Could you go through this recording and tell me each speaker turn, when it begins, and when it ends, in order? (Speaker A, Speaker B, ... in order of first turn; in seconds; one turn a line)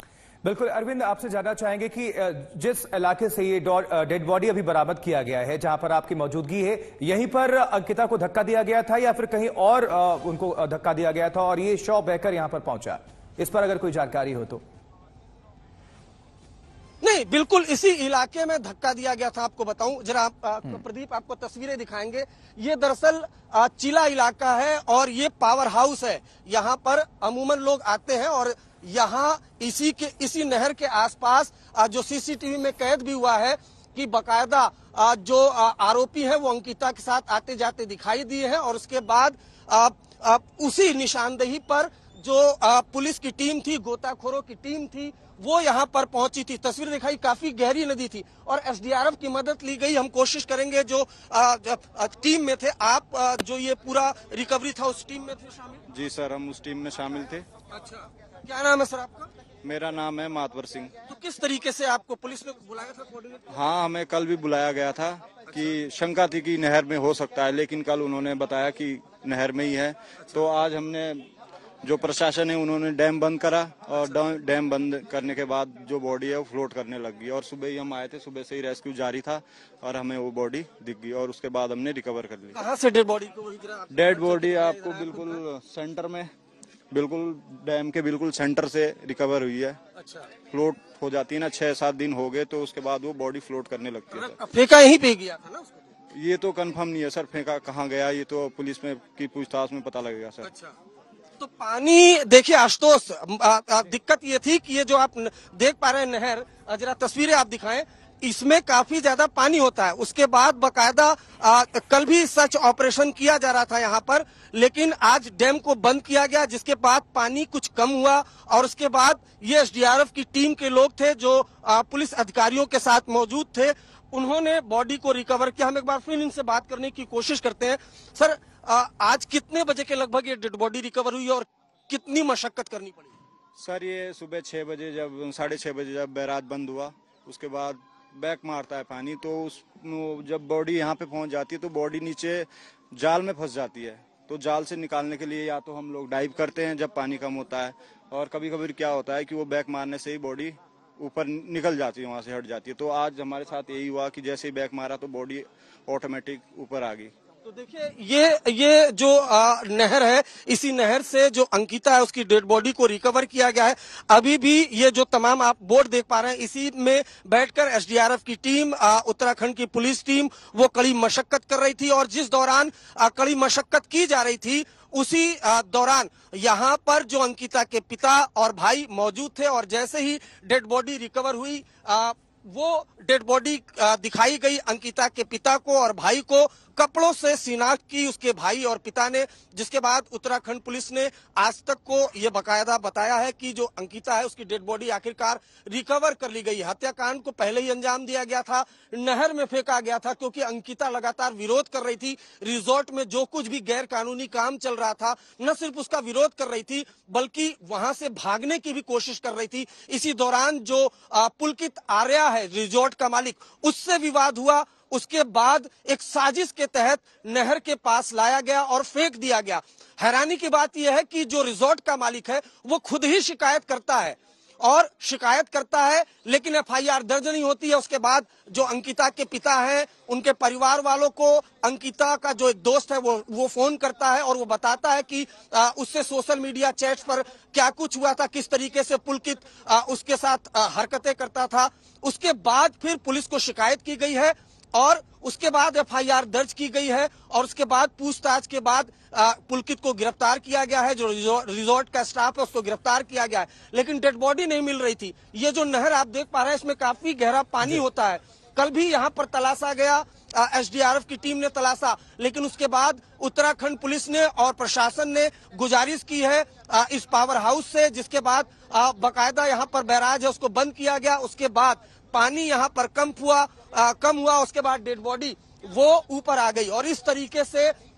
Speaker A: 0.4-14.6
Speaker B: 17.0-55.8
Speaker C: 55.9-57.5
Speaker B: 57.7-59.3
Speaker C: 59.6-60.9
Speaker B: 61.1-63.4
Speaker C: 63.5-71.3
Speaker C: 71.8-82.6
Speaker B: 82.5-85.4
Speaker C: 83.9-86.3
Speaker C: 86.9-89.8
Speaker C: 90.5-94.4
Speaker B: 94.1-95.9
Speaker C: 96.1-100.5
Speaker B: 100.4-100.7
Speaker B: 101.4-133.1
Speaker C: 133.6-157.1
Speaker B: 157.4-277.7